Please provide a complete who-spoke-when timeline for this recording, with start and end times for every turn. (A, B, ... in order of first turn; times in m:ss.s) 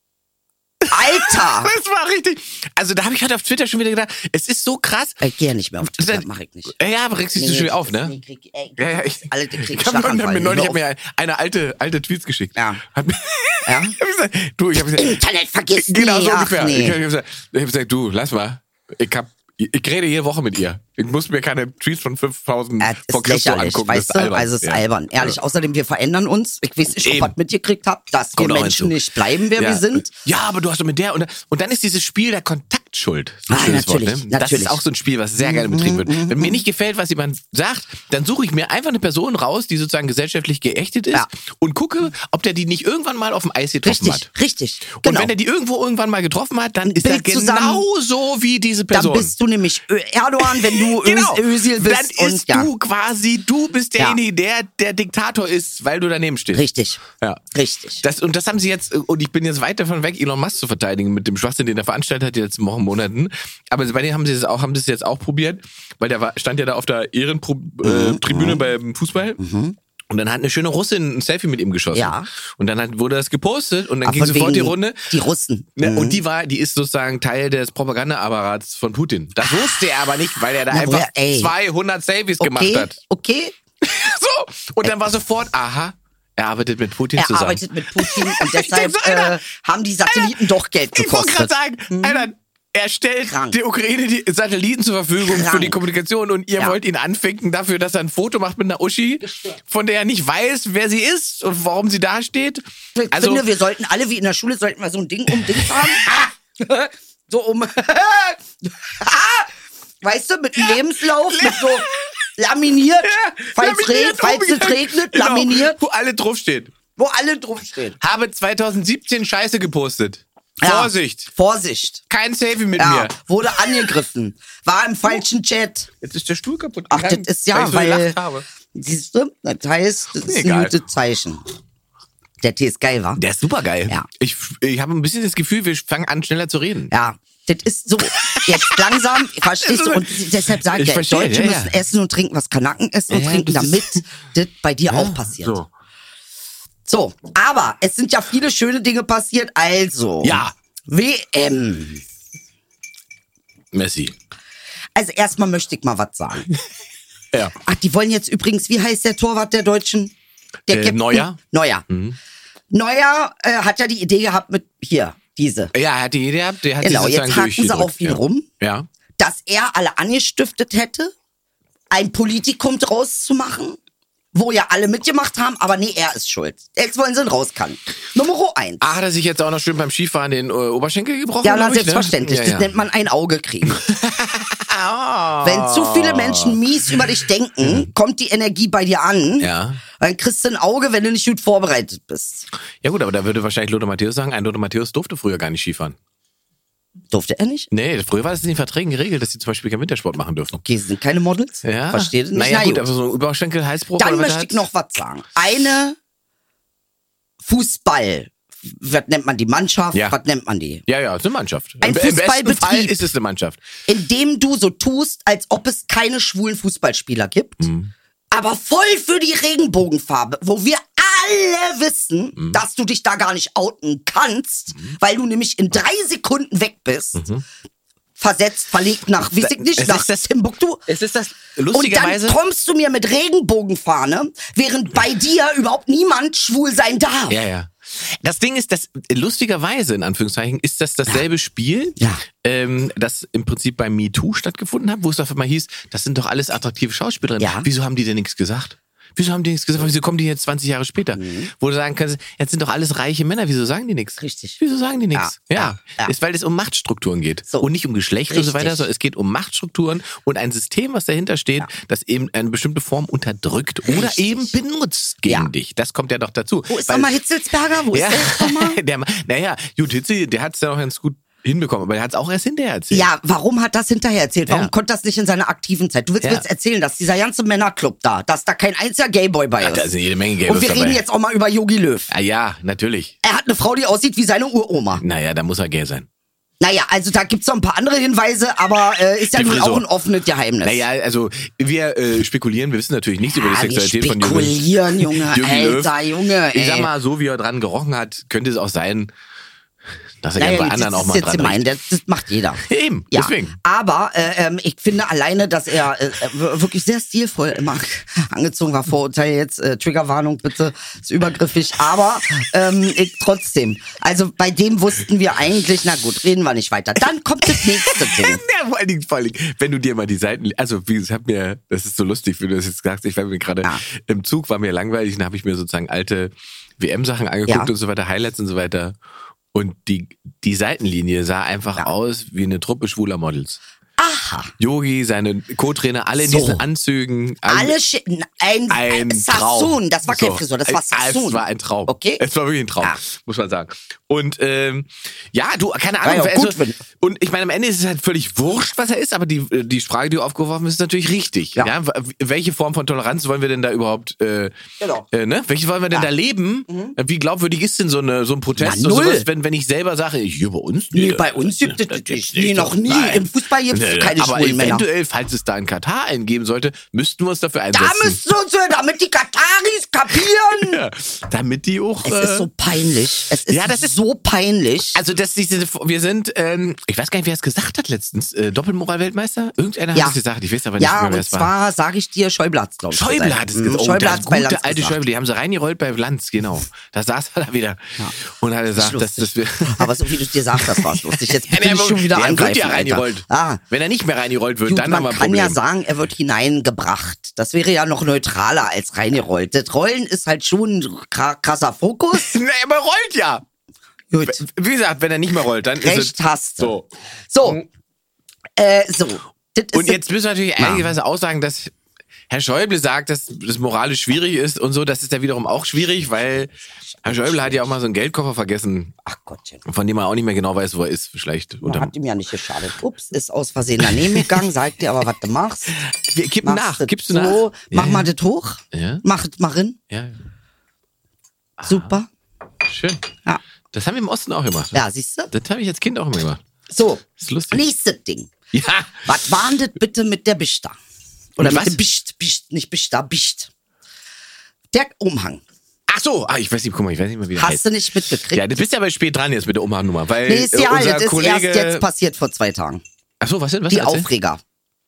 0:00.8-0:05.2 A
0:00.9-0:01.7 B
0:05.2-0:06.8 B
0:05.8-0:06.2 A
0:06.8-0:08.2 A
0:07.4-0:10.8 B
0:08.8-0:15.2 A
0:12.6-0:12.8 B
0:13.7-0:14.0 B
0:14.8-0:17.0 B
0:15.7-0:25.4 A
0:22.8-0:30.1 B
0:27.0-0:27.3 A
0:28.4-0:29.0 A
0:29.6-0:44.3 A
0:33.5-0:34.8 B
0:35.4-0:36.6 B
0:43.8-0:45.3 B
0:45.0-0:49.3 A
0:46.8-0:47.8 B
0:48.9-0:52.7 B
0:50.4-0:56.6 A
0:56.5-0:57.0 B
0:57.5-0:58.0 B
0:58.0-1:09.4 A
1:07.8-1:08.6 B
1:09.4-1:09.8 B
1:10.1-1:15.1 A
1:11.9-1:12.3 B
1:14.0-1:16.2 B
1:15.8-1:23.0 A
1:19.4-1:19.8 B
1:20.7-1:21.5 B
1:22.4-1:23.6 B
1:23.8-1:29.4 A
1:27.2-1:32.3 B
1:30.1-1:30.4 A
1:31.0-1:43.4 A
1:33.3-1:33.6 B
1:35.2-1:35.8 B
1:43.0-1:49.5 B
1:45.5-1:45.9 A
1:50.0-1:55.8 B
1:51.3-1:51.9 A
1:53.0-1:56.7 A
1:57.0-1:58.0 B
1:58.0-2:01.3 A
2:00.6-2:02.0 B
2:02.1-2:03.6 A
2:02.8-2:05.9 B
2:06.0-2:08.4 A
2:06.9-2:08.2 B
2:08.7-2:11.4 B
2:10.2-2:10.8 A
2:12.4-2:13.2 B
2:13.2-2:16.9 A
2:16.9-2:25.6 B
2:18.2-2:21.8 A
2:23.1-2:24.0 A
2:24.9-2:25.7 A
2:26.9-2:32.0 B
2:30.2-2:30.5 A
2:33.7-2:34.2 A
2:35.0-2:36.5 B
2:37.6-2:40.1 B
2:40.7-2:41.9 B
2:40.7-2:41.4 A
2:41.9-2:42.2 A
2:42.7-2:45.7 B
2:45.7-2:48.9 A
2:46.8-2:48.5 B
2:49.2-2:51.1 B
2:51.9-2:53.8 B
2:54.3-2:59.0 B
2:58.8-3:02.7 A
3:01.4-3:03.8 B
3:03.7-3:06.6 A
3:05.4-3:12.5 B
3:09.4-3:09.8 A
3:12.8-3:16.0 A
3:17.1-3:17.7 B
3:17.7-3:20.6 A
3:20.6-3:22.9 B
3:21.6-3:24.6 A
3:24.0-3:26.0 B
3:27.4-3:30.8 B
3:30.9-3:33.6 A
3:31.8-3:33.0 B
3:33.9-3:37.7 B
3:37.6-3:37.9 A
3:38.3-3:47.3 B
3:47.2-3:47.4 A
3:48.2-3:50.8 B
3:49.4-3:50.1 A
3:50.9-3:52.4 A
3:51.7-3:57.4 B
3:57.3-4:27.1 A
4:07.4-4:07.7 B
4:11.2-4:11.5 B
4:14.2-4:14.6 B
4:15.1-4:16.1 B
4:18.3-4:18.8 B
4:23.8-4:24.6 B
4:25.3-4:25.5 B
4:26.7-4:28.8 B
4:27.9-4:33.1 A
4:32.9-4:39.9 B
4:39.6-4:41.0 A
4:40.4-4:42.1 B
4:42.1-4:43.1 A
4:43.2-4:45.0 B
4:45.0-4:46.1 A
4:46.6-4:50.9 B
4:49.3-4:49.9 A
4:50.6-4:55.9 A
4:53.3-4:56.9 B
4:56.5-4:59.1 A
5:00.2-5:01.6 A
5:00.4-5:18.4 B
5:02.6-5:03.6 A
5:17.5-5:29.0 A
5:29.5-5:33.6 A
5:34.0-5:34.5 B
5:34.6-5:37.8 A
5:36.2-5:36.6 B
5:37.5-5:42.2 B
5:38.7-5:54.5 A
5:46.0-5:46.8 B
5:54.8-5:55.1 B
5:55.1-6:08.2 A
5:56.7-5:57.0 B
5:58.6-5:59.3 B
6:00.9-6:04.9 B
6:07.7-6:10.8 B
6:10.6-6:12.5 A
6:12.0-6:15.0 B
6:13.5-6:13.9 A
6:15.0-6:21.5 A
6:20.8-6:25.0 B
6:22.9-6:29.9 A
6:28.8-6:33.6 B
6:30.6-6:35.6 A
6:34.7-6:42.4 B
6:42.1-6:43.4 A
6:44.1-6:44.4 B
6:44.2-6:46.9 A
6:45.8-6:46.8 B
6:47.3-6:47.6 B
6:48.6-6:50.0 B
6:49.7-6:51.7 A
6:50.6-6:50.8 B
6:52.3-6:56.5 A
6:56.8-6:57.7 B
6:57.0-6:58.9 A
6:59.0-6:59.6 B
6:59.6-7:01.9 A
7:01.6-7:05.8 B
7:04.0-7:04.4 A
7:05.9-7:08.1 A
7:06.4-7:09.8 B
7:08.7-7:09.0 A
7:09.9-7:10.2 A
7:11.6-7:11.9 A
7:11.7-7:12.1 B
7:12.6-7:13.0 A
7:13.7-7:16.4 A
7:14.7-7:15.3 B
7:16.7-7:18.3 B
7:17.2-7:17.6 A
7:18.5-7:19.1 A
7:19.0-7:20.8 B
7:21.4-7:23.5 B
7:21.4-7:21.8 A
7:24.7-7:25.4 B
7:25.9-7:27.6 A
7:27.4-7:28.4 B
7:28.3-7:31.8 A
7:30.3-7:32.8 B
7:33.2-7:34.1 A
7:33.7-7:34.4 B